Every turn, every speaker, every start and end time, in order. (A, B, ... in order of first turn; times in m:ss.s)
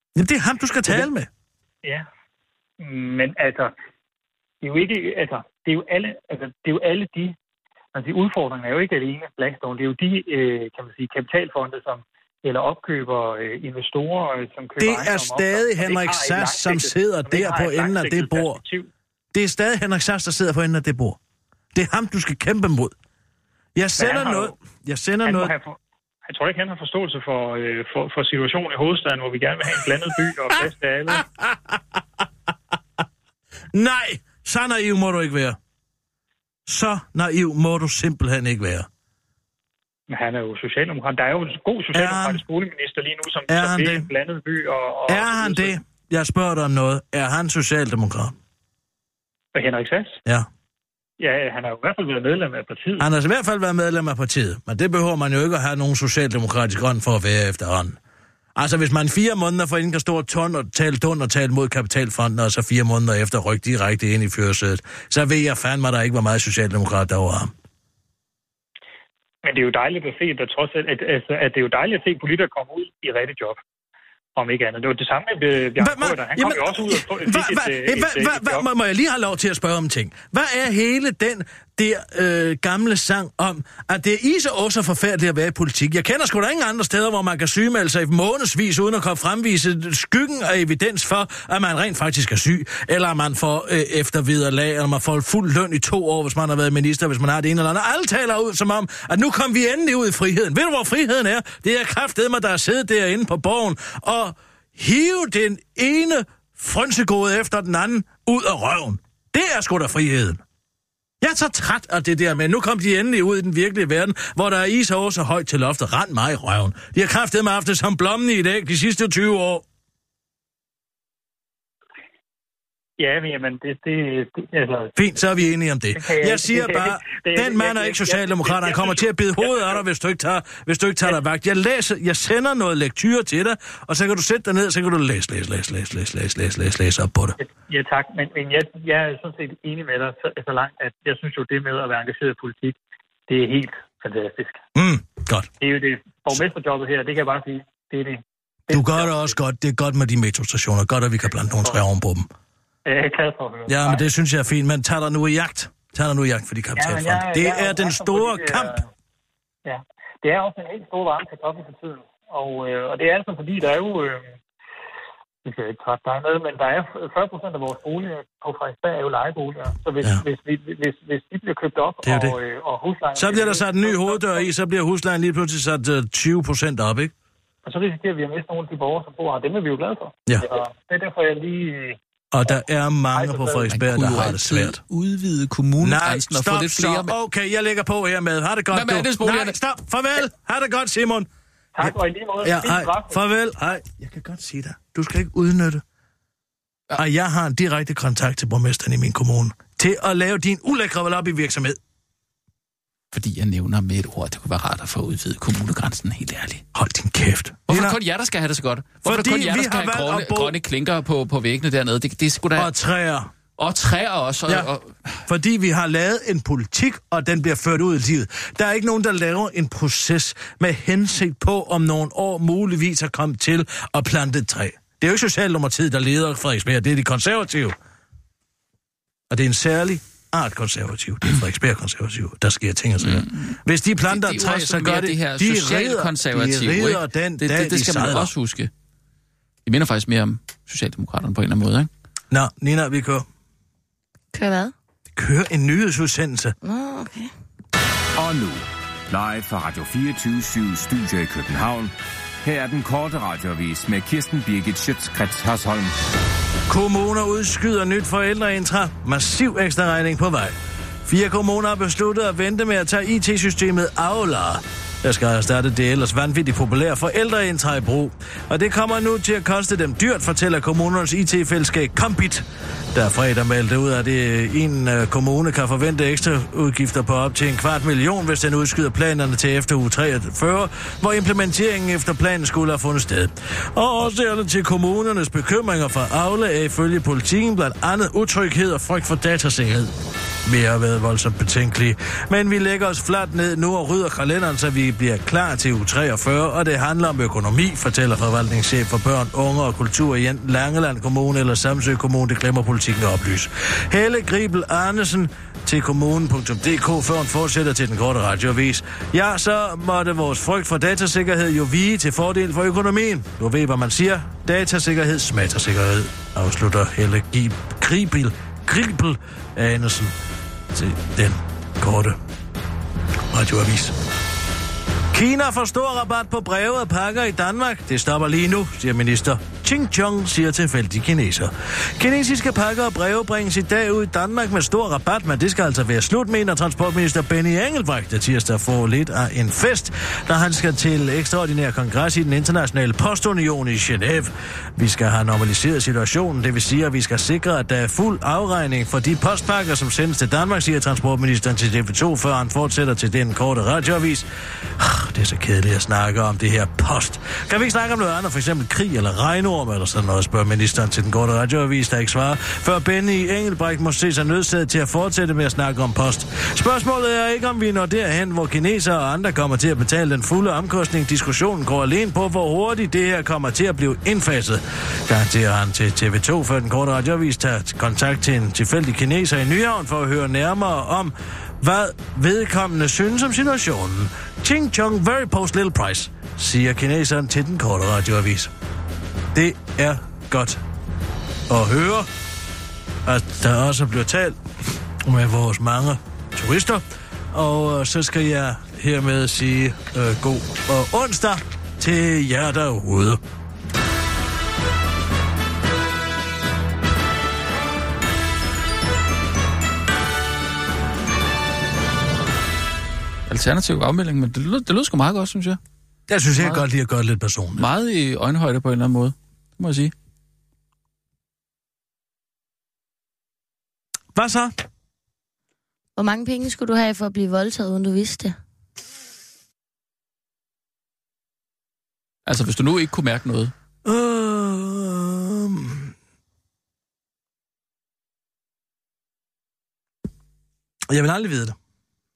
0:00.2-0:01.3 A
0:02.8-0:03.7 B
0:04.6-0:07.4 B
0:07.9-0:18.9 B
0:14.8-0:18.6 A
0:19.3-0:21.2 A
0:21.7-0:22.9 A
0:23.7-0:25.5 A
0:24.0-0:24.6 B
0:25.2-0:31.2 B
0:30.5-0:31.8 A
0:33.7-0:35.6 A
0:36.6-0:38.9 A
0:40.1-0:45.7 B
0:41.9-0:42.4 A
0:43.5-0:44.1 A
0:45.1-0:48.4 A
0:49.5-0:50.2 B
0:51.2-0:53.0 B
0:53.0-0:58.0 A
0:58.6-1:07.5 A
1:09.4-1:13.6 B
1:14.3-1:18.6 B
1:15.8-1:50.4 A
1:51.2-1:59.6 A
2:03.0-2:04.9 B
2:05.0-2:17.4 A
2:06.0-2:09.8 B
2:17.4-2:24.6 B
2:24.8-2:25.5 A
2:25.6-2:29.3 B
2:28.7-2:32.3 A
2:32.8-2:34.0 B
2:33.7-2:38.8 A
2:36.8-2:38.9 B
2:39.6-2:44.3 B
2:45.4-2:54.5 B
2:52.0-2:52.4 A
2:53.2-2:57.1 A
2:57.6-3:02.0 B
3:02.3-3:04.8 A
3:03.1-3:03.7 B
3:03.7-3:07.1 C
3:05.8-3:11.3 A
3:08.7-3:09.6 C
3:11.8-3:13.2 B
3:11.8-3:15.8 A
3:16.9-3:21.8 A
3:23.1-3:26.6 C
3:26.7-3:28.0 A
3:27.7-3:32.7 C
3:29.0-3:30.6 A
3:32.6-3:33.3 A
3:33.6-3:35.2 C
3:35.3-3:47.7 A
3:49.3-3:58.3 A
3:53.0-3:58.7 C
3:59.6-4:01.9 C
4:02.3-4:03.2 A
4:04.3-4:04.7 D
4:05.1-4:06.5 A
4:06.6-4:07.3 D
4:08.2-4:11.9 E
4:12.4-4:15.9 E
4:16.7-4:49.9 A
4:50.4-5:20.1 A
5:20.7-5:22.2 A
5:23.3-5:23.9 A
5:25.1-5:54.2 A
5:54.8-6:28.5 A
6:29.3-6:30.6 A
6:31.5-6:32.1 A
6:33.0-6:34.4 A
6:35.0-6:43.2 A
6:53.3-6:55.6 C
6:56.1-6:57.6 A
6:56.4-6:56.6 C
6:57.6-6:59.9 C
7:04.1-7:04.6 A
7:06.0-7:08.4 D
7:12.2-7:13.5 C
7:13.8-7:15.9 A
7:20.9-7:21.6 A